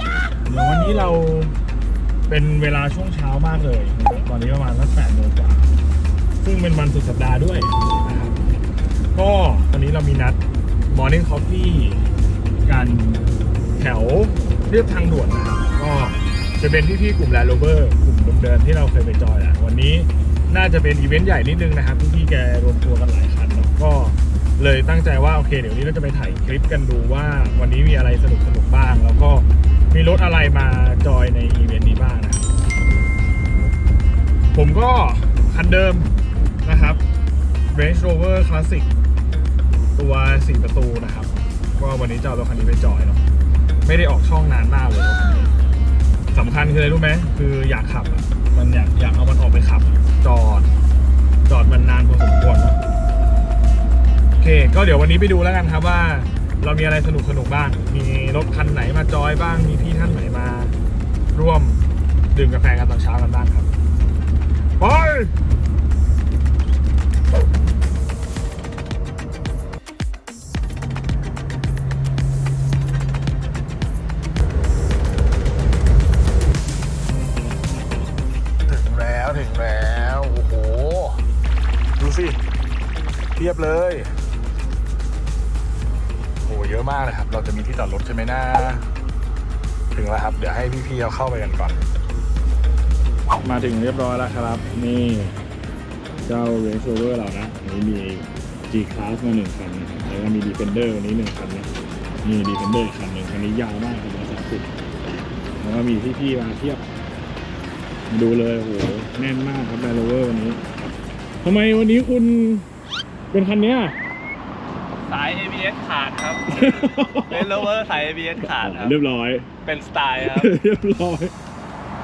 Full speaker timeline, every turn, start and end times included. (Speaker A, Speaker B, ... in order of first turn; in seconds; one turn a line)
Speaker A: 0.4-1.5
Speaker A: 2.3-5.8
Speaker A: 6.4-8.4
Speaker A: 9.1-12.0
Speaker A: 12.6-32.5
Speaker A: 34.5-37.0
Speaker A: 37.7-38.9
Speaker A: 40.0-43.2
Speaker A: 43.8-45.7
Speaker A: 46.3-50.7
Speaker A: 51.5-52.8
Speaker A: 54.4-60.7
Speaker A: 61.3-63.7
Speaker A: 64.8-65.3
Speaker A: 78.7-81.2
Speaker A: 82.0-82.4
Speaker A: 83.3-84.1
Speaker A: 86.4-88.9
Speaker A: 89.9-91.8
Speaker A: 93.4-95.4
Speaker A: 96.2-101.7
Speaker A: 102.2-104.7
Speaker A: 105.6-106.8
Speaker A: 108.1-110.6
Speaker A: 111.4-112.7
Speaker A: 113.3-114.0
Speaker B: 115.0-116.6
Speaker A: 116.5-117.7
Speaker B: 117.2-119.0
Speaker A: 118.4-119.5
Speaker B: 119.6-120.5
Speaker A: 120.2-121.3